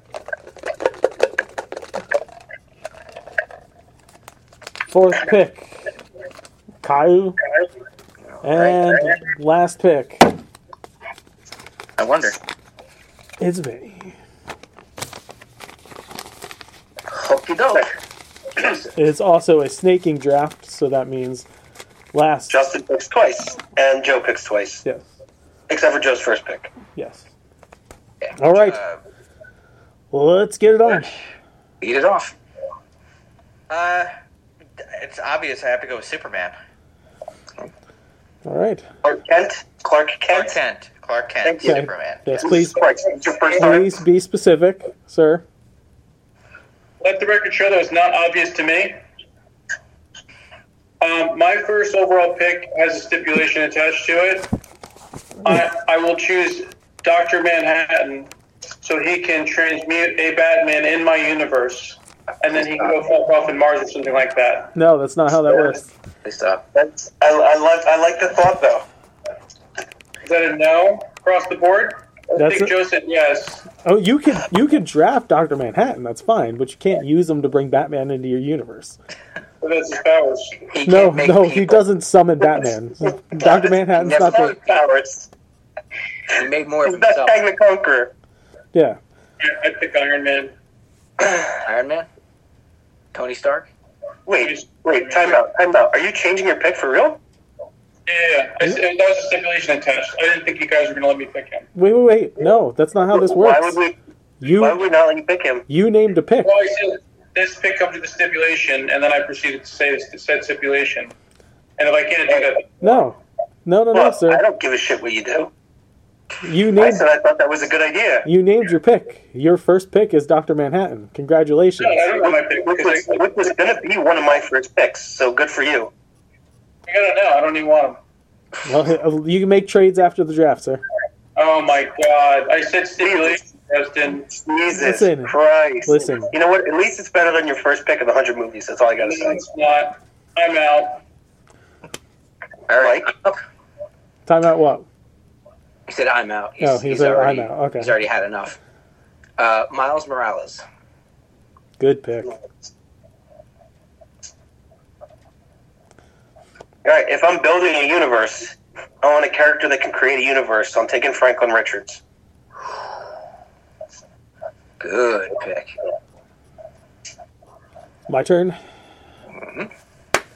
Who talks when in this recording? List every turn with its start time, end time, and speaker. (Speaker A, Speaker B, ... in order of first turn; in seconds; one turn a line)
Speaker A: 4.9-5.8
Speaker A: 6.8-7.4
Speaker B: 8.3-9.0
Speaker A: 8.4-10.3
Speaker B: 12.0-12.4
Speaker A: 13.4-14.1
Speaker B: 17.1-17.9
Speaker B: 18.6-18.9
Speaker A: 18.9-21.5
Speaker A: 22.1-22.6
Speaker C: 22.5-24.8
Speaker C: 25.7-26.7
Speaker A: 26.9-27.3
Speaker A: 28.4-28.8
Speaker D: 28.6-29.0
Speaker A: 30.1-31.1
Speaker B: 31.8-32.3
Speaker D: 33.7-34.1
Speaker D: 34.9-36.5
Speaker A: 38.4-38.8
Speaker C: 39.0-40.6
Speaker D: 40.3-42.5
Speaker C: 41.4-41.8
Speaker A: 41.6-42.8
Speaker C: 42.4-44.0
Speaker A: 43.5-45.4
Speaker E: 47.0-49.0
Speaker E: 51.0-54.5
Speaker E: 55.4-58.3
Speaker E: 58.8-64.7
Speaker B: 62.4-63.0
Speaker A: 64.7-65.9
Speaker B: 66.2-66.6
Speaker C: 66.7-68.8
Speaker E: 70.2-73.6
Speaker A: 72.3-72.7
Speaker A: 73.8-79.0
Speaker E: 79.6-80.6
Speaker B: 80.7-81.9
Speaker A: 80.8-84.6
Speaker C: 83.4-85.3
Speaker B: 83.9-84.8
Speaker B: 86.3-87.4
Speaker C: 86.8-88.1
Speaker A: 88.7-89.0
Speaker E: 89.4-90.5
Speaker B: 91.5-92.1
Speaker B: 93.1-93.7
Speaker C: 94.2-97.2
Speaker E: 94.4-95.4
Speaker E: 98.1-101.7
Speaker A: 101.7-103.8
Speaker C: 103.1-104.0
Speaker A: 104.4-104.8
Speaker C: 104.5-105.6
Speaker A: 105.7-106.5
Speaker E: 106.4-111.1
Speaker E: 111.8-112.8
Speaker A: 112.8-114.4
Speaker C: 113.9-115.5
Speaker A: 116.4-117.0
Speaker C: 116.8-118.3
Speaker A: 118.2-122.0
Speaker E: 121.8-123.3
Speaker C: 122.2-125.9
Speaker E: 126.9-128.0
Speaker A: 128.6-130.8
Speaker E: 131.3-134.3
Speaker C: 133.0-133.4
Speaker C: 134.2-139.4
Speaker A: 134.7-136.3
Speaker E: 139.0-141.0
Speaker B: 142.7-143.4
Speaker C: 142.7-143.1
Speaker A: 144.2-144.8
Speaker B: 145.9-148.6
Speaker A: 146.6-147.9
Speaker B: 149.4-150.6
Speaker A: 151.8-152.3
Speaker C: 156.8-162.0
Speaker B: 164.8-165.7
Speaker A: 168.1-168.6
Speaker B: 169.3-169.7